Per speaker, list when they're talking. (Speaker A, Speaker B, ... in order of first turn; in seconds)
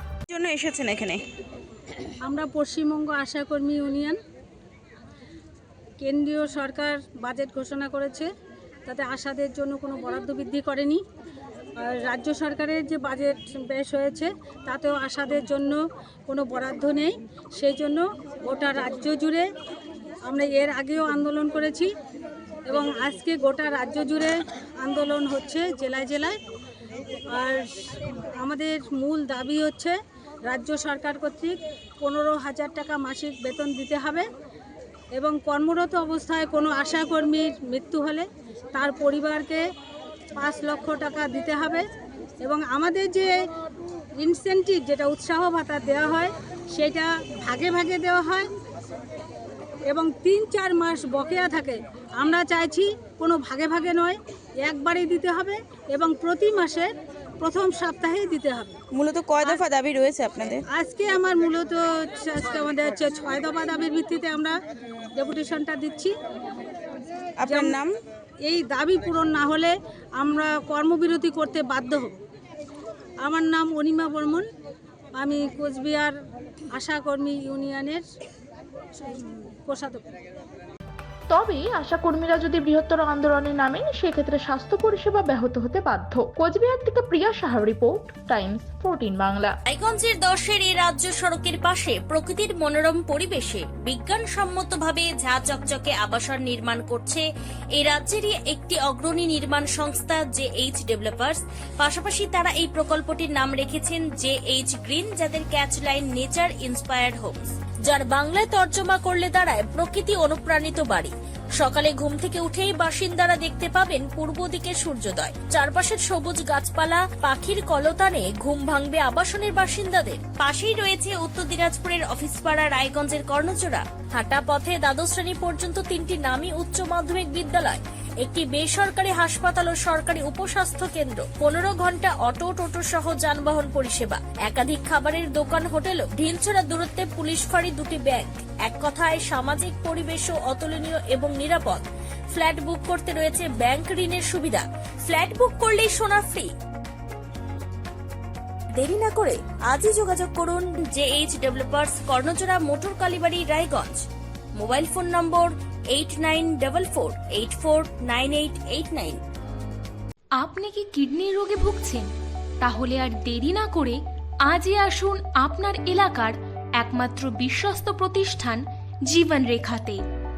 Speaker A: 0.3-1.2, 58.9-60.6, 67.4-67.9
Speaker B: 2.2-4.2, 6.0-8.2, 8.9-11.0, 11.9-15.8, 16.3-19.4, 20.2-21.9, 22.7-26.3, 27.3-27.7, 28.4-34.2, 35.1-39.6, 40.4-41.8, 42.4-43.4, 44.2-48.5, 49.9-58.8, 60.7-64.6, 65.1-66.1, 68.4-72.1, 73.2-74.5, 75.2-76.1, 76.7-78.0, 79.0-80.0
Speaker C: 81.3-89.5
Speaker D: 89.7-146.5, 148.8-154.0, 154.6-159.2
Speaker E: 160.4-162.1, 162.6-170.0